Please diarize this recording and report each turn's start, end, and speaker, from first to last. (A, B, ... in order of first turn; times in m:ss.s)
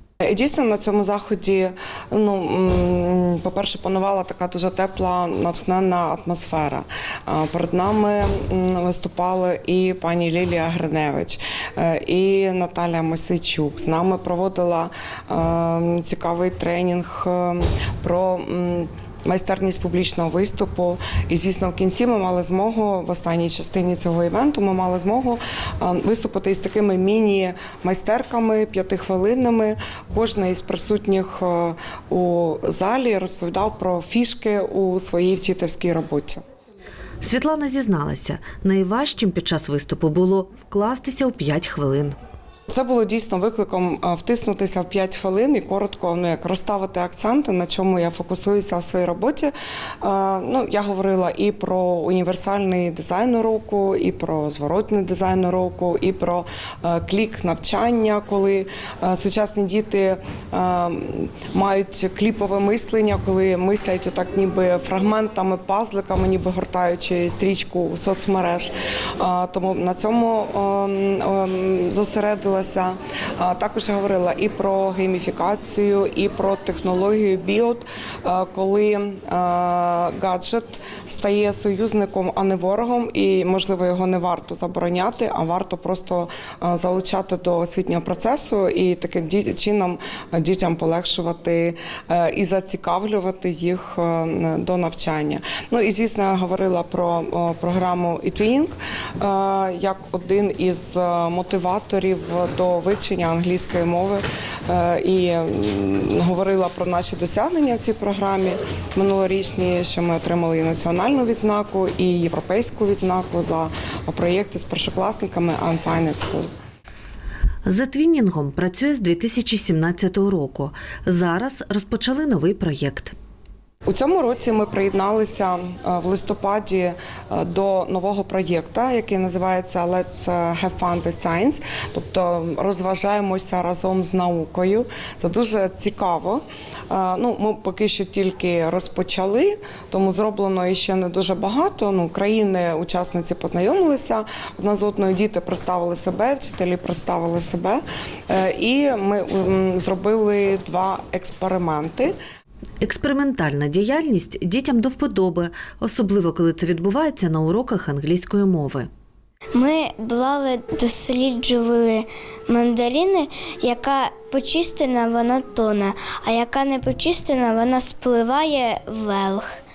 0:00.2-0:36.4 A
0:37.2-0:42.2 B
0:42.7-1:56.5 A
1:57.7-2:03.1 B
2:03.9-2:32.1 A
2:32.8-2:38.9 B
2:39.5-2:49.5 C